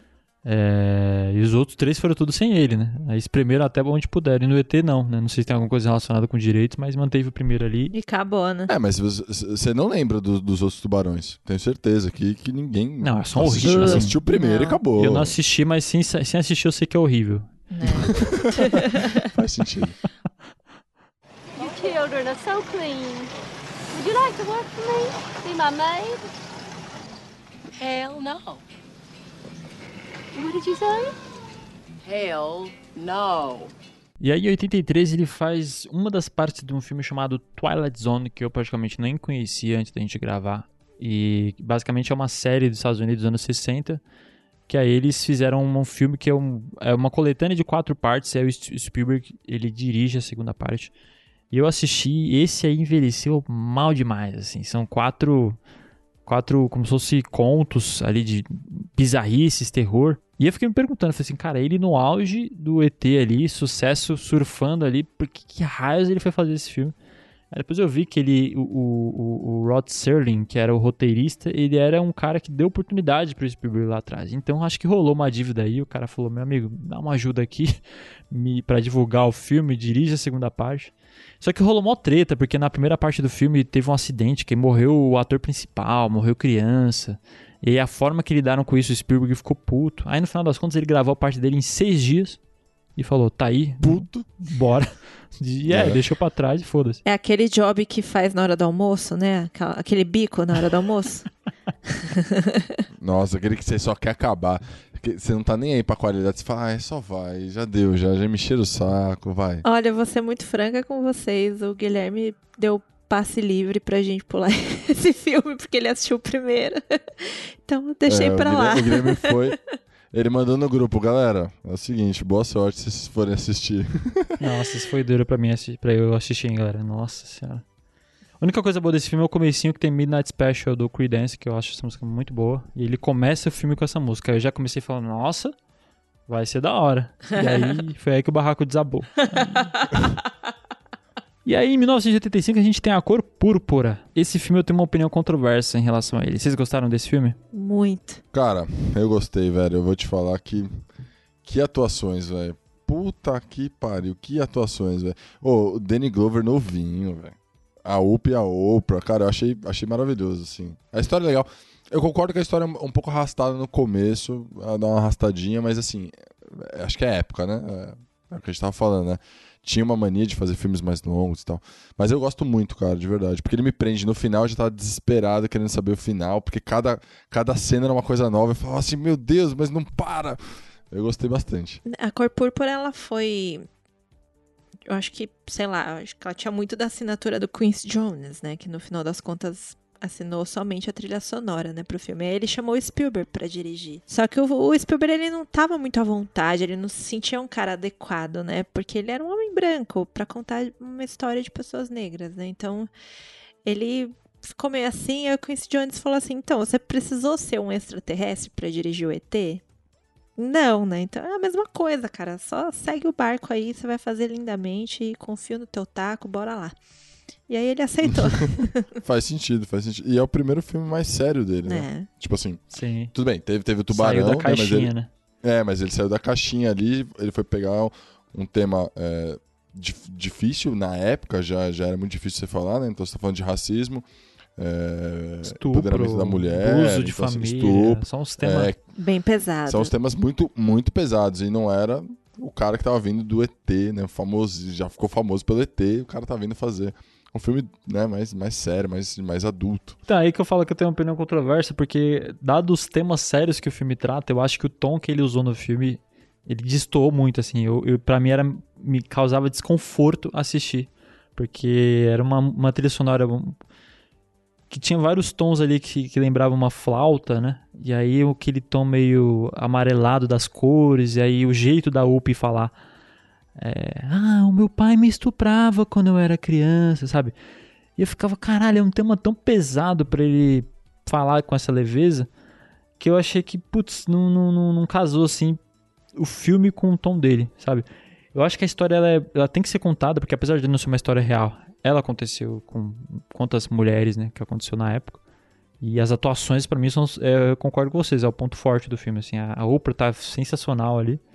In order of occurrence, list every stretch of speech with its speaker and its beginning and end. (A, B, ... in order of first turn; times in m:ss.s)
0:00.4-0:07.9 A
0:07.9-0:08.7 B
0:08.7-0:15.4 C
0:13.0-0:14.2 A
0:13.6-0:14.8 B
0:15.0-0:17.5 A
0:17.7-0:19.1 B
0:18.1-0:20.0 C
0:21.6-0:23.3 D
0:23.9-0:26.3 D
0:27.8-0:28.6 E
0:30.3-0:31.2 D
0:32.0-0:33.7 E
0:34.2-0:44.0 A
0:44.7-0:50.9 A
0:51.5-0:55.6 A
0:56.3-1:06.9 A
1:07.5-1:17.8 A
1:18.3-1:32.4 A
1:33.0-1:37.0 A
1:33.8-1:34.3 C
1:35.7-1:36.0 C
1:37.0-1:41.3 B
1:41.9-1:42.8 B
1:43.0-1:49.7 C
1:49.6-1:59.6 B
1:58.1-1:59.6 C
2:00.1-2:04.4 C
2:04.4-2:07.6 A
2:08.4-2:15.6 A
2:16.3-2:19.7 A
2:17.4-2:17.7 B
2:21.4-2:27.4 A
2:27.5-2:28.2 B
2:28.3-2:30.8 C
2:31.4-3:01.8 C
3:01.9-3:03.7 B
3:04.9-3:22.9 B
3:23.6-3:29.6 B
3:30.4-3:36.8 B
3:37.5-3:38.9 B
3:38.1-3:54.0 C
3:41.7-3:42.1 B
3:42.7-3:43.1 A
3:43.9-3:45.1 A
3:54.6-3:58.8 C
3:55.4-3:58.7 A
3:59.0-3:59.9 B
3:59.7-4:10.0 C
4:10.1-4:23.6 A
4:24.7-4:32.7 A
4:33.6-4:37.3 A
4:38.0-4:42.3 A
4:43.0-4:45.6 A
4:46.2-4:55.2 A
4:55.8-5:01.2 A